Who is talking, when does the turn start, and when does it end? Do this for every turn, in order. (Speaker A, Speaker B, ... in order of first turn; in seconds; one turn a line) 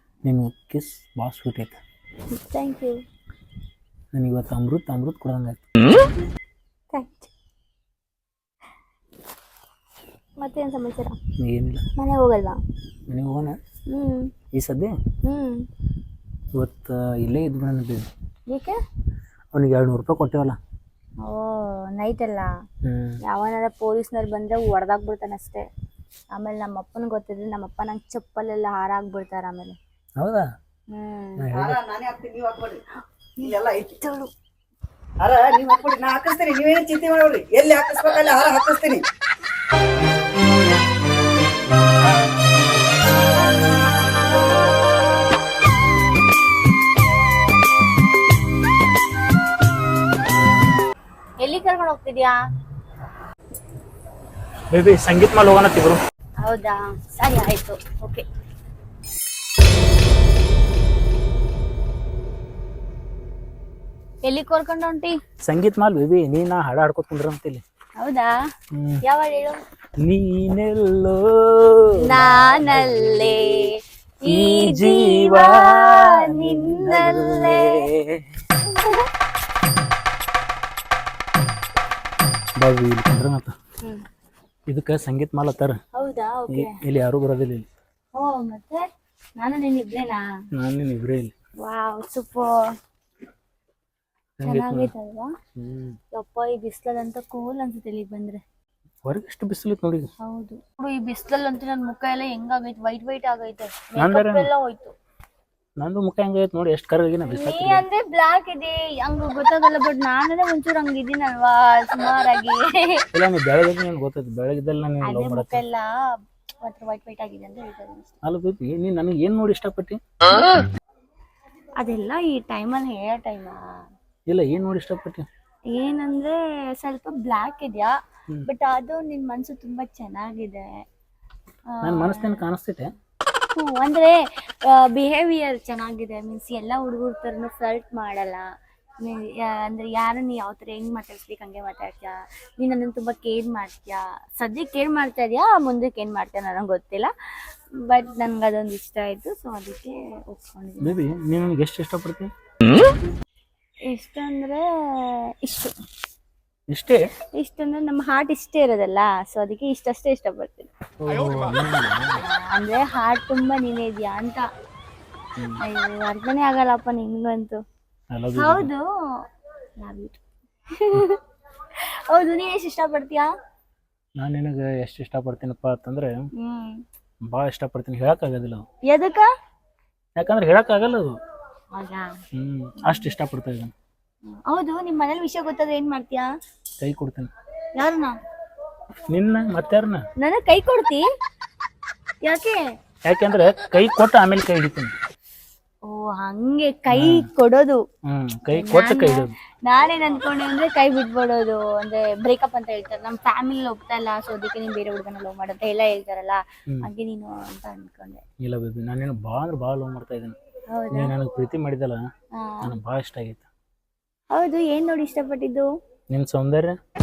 Speaker A: 0.2-1.8
Speaker B: 2.4-3.0
Speaker A: 4.1-5.6
Speaker B: 6.9-7.3
Speaker B: 10.4-11.2
Speaker A: 11.4-11.8
Speaker B: 12.0-12.6
Speaker A: 13.1-13.6
Speaker B: 13.9-14.3
Speaker A: 14.5-14.9
Speaker B: 15.2-15.6
Speaker A: 16.6-18.1
Speaker B: 18.5-18.8
Speaker A: 19.5-20.6
Speaker B: 21.2-22.5
Speaker A: 22.8-23.2
Speaker B: 23.3-25.6
Speaker B: 26.3-29.8
Speaker A: 30.2-30.4
Speaker B: 30.9-31.4
Speaker A: 31.4-31.8
Speaker C: 31.5-32.8
Speaker C: 33.4-34.3
Speaker C: 35.2-39.0
Speaker B: 51.4-52.4
Speaker A: 54.7-56.0
Speaker B: 56.4-58.2
Speaker B: 64.2-65.1
Speaker A: 65.4-67.6
Speaker B: 68.0-68.3
Speaker A: 68.7-69.0
Speaker B: 69.0-69.6
Speaker A: 70.0-73.5
Speaker B: 72.0-77.8
Speaker A: 74.3-78.1
Speaker B: 78.7-79.0
Speaker A: 82.6-83.5
Speaker A: 84.7-85.8
Speaker B: 85.9-86.7
Speaker A: 86.5-87.6
Speaker B: 88.1-90.2
Speaker A: 90.5-91.3
Speaker B: 91.6-92.5
Speaker A: 94.4-94.9
Speaker B: 94.4-95.3
Speaker A: 95.6-96.0
Speaker B: 96.1-98.4
Speaker A: 99.0-100.1
Speaker B: 100.2-104.9
Speaker A: 104.0-104.5
Speaker A: 105.8-107.8
Speaker B: 107.3-113.0
Speaker A: 113.1-115.6
Speaker B: 115.0-115.9
Speaker B: 116.6-118.1
Speaker A: 118.2-120.0
Speaker B: 121.8-123.6
Speaker A: 124.3-125.2
Speaker B: 125.7-127.9
Speaker B: 128.4-130.6
Speaker B: 131.8-132.4
Speaker A: 131.8-132.9
Speaker B: 133.5-138.4
Speaker B: 139.0-147.1
Speaker B: 147.9-150.9
Speaker A: 150.8-152.3
Speaker B: 153.9-155.7
Speaker A: 156.7-157.0
Speaker B: 157.4-160.7
Speaker A: 161.0-162.2
Speaker B: 162.2-164.4
Speaker B: 165.6-167.6
Speaker A: 168.1-168.7
Speaker B: 168.4-168.8
Speaker B: 169.8-170.2
Speaker B: 170.7-171.2
Speaker B: 172.1-173.3
Speaker A: 174.2-176.1
Speaker B: 176.4-176.8
Speaker A: 177.3-178.6
Speaker B: 178.9-179.3
Speaker A: 180.2-181.1
Speaker B: 181.7-182.1
Speaker A: 182.3-183.7
Speaker B: 182.8-183.1
Speaker B: 184.4-186.3
Speaker A: 186.8-187.3
Speaker B: 187.8-188.1
Speaker A: 189.1-190.0
Speaker B: 190.2-191.0
Speaker B: 192.2-192.6
Speaker A: 193.1-194.9
Speaker B: 195.8-197.8
Speaker A: 196.9-197.2
Speaker A: 198.1-199.3
Speaker B: 198.5-208.2
Speaker A: 208.4-210.3
Speaker B: 210.7-211.1
Speaker A: 210.9-212.0
Speaker B: 212.3-212.7
Speaker A: 212.6-213.5
Speaker B: 214.3-215.7
Speaker A: 216.1-216.8